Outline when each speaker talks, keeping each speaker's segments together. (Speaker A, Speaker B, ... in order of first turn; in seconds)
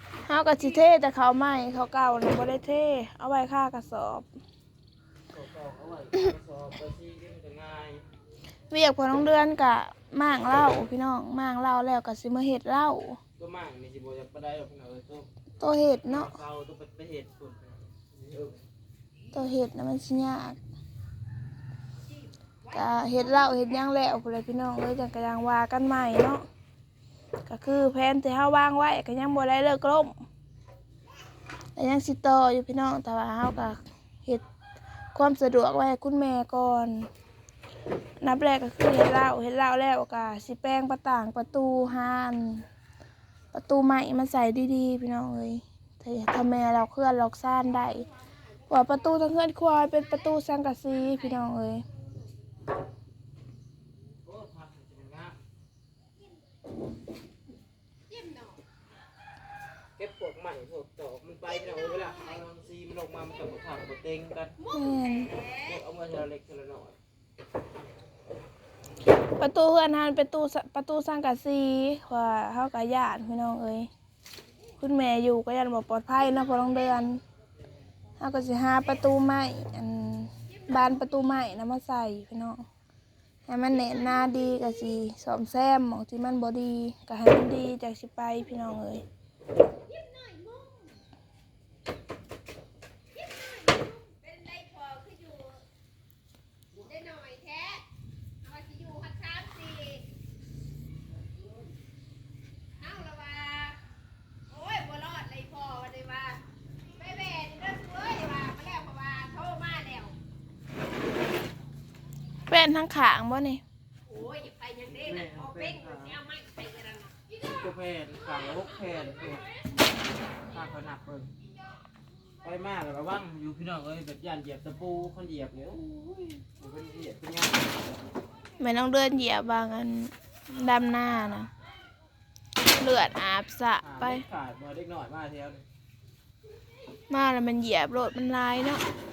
Speaker A: 0.3-4.3, 8.7-13.2, 15.6-16.3, 19.3-20.6, 22.7-26.4, 27.5-30.1, 31.8-34.4, 35.1-37.1, 38.2-42.6, 43.5-48.1, 48.7-51.9, 64.7-65.3, 69.4-73.9, 74.8-77.2, 78.2-82.6, 83.5-89.0, 112.5-113.6, 128.6-131.5, 132.7-134.2, 137.1-138.8
Speaker B: 5.3-8.1, 13.4-15.3, 16.1-18.7, 54.2-55.4, 60.0-64.6, 65.4-67.0, 114.8-116.3, 117.3-119.5, 120.5-121.3, 122.4-128.1, 133.8-135.7
Speaker C: 58.1-58.5, 90.0-90.9, 93.3-95.6, 96.8-97.8, 98.4-100.1, 102.8-103.8, 104.5-106.4, 107.0-110.2, 114.1-114.9, 116.4-117.1